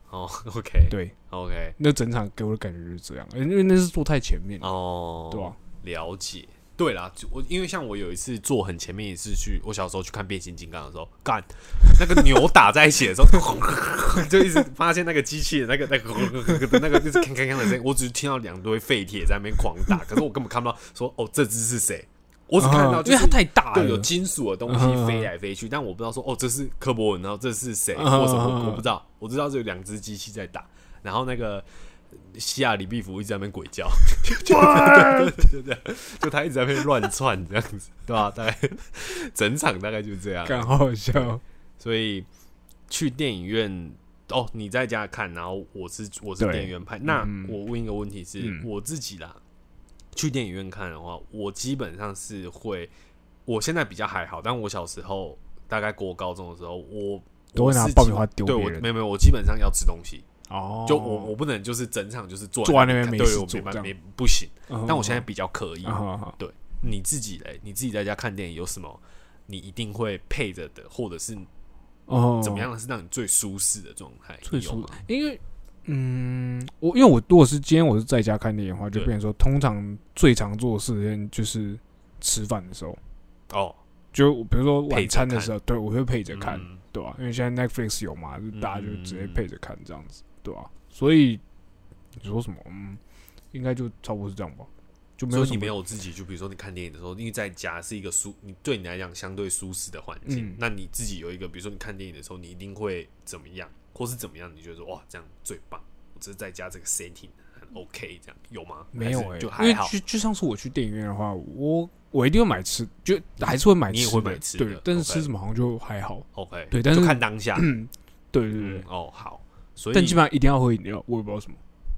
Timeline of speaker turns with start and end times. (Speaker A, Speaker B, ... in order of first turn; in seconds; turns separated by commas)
Speaker A: 0.1-1.8, Speaker B: 0.9-1.1, Speaker B: 1.8-4.7, Speaker A: 4.6-42.3, Speaker B: 5.3-5.6, Speaker B: 22.6-24.1, Speaker B: 24.7-25.3, Speaker B: 27.9-28.9, Speaker B: 34.3-35.4, Speaker B: 40.5-41.4, Speaker A: 42.9-49.4, Speaker B: 46.4-47.6, Speaker B: 48.4-48.7, Speaker A: 50.1-52.9, Speaker A: 53.5-60.3, Speaker B: 57.5-58.9, Speaker B: 60.5-61.3, Speaker A: 60.9-71.5, Speaker B: 62.6-63.9, Speaker B: 64.7-65.3, Speaker B: 65.8-66.4, Speaker B: 72.1-72.7, Speaker A: 72.4-75.0, Speaker B: 74.5-83.0, Speaker A: 83.5-83.8, Speaker B: 84.1-91.4, Speaker A: 84.9-85.5, Speaker A: 86.3-86.8, Speaker A: 88.5-89.4, Speaker B: 92.2-93.0, Speaker B: 93.5-95.8, Speaker A: 95.3-110.0, Speaker B: 100.3-100.6, Speaker B: 108.9-118.9, Speaker A: 113.4-115.3, Speaker A: 116.3-117.7, Speaker A: 118.6-120.2, Speaker B: 119.9-121.6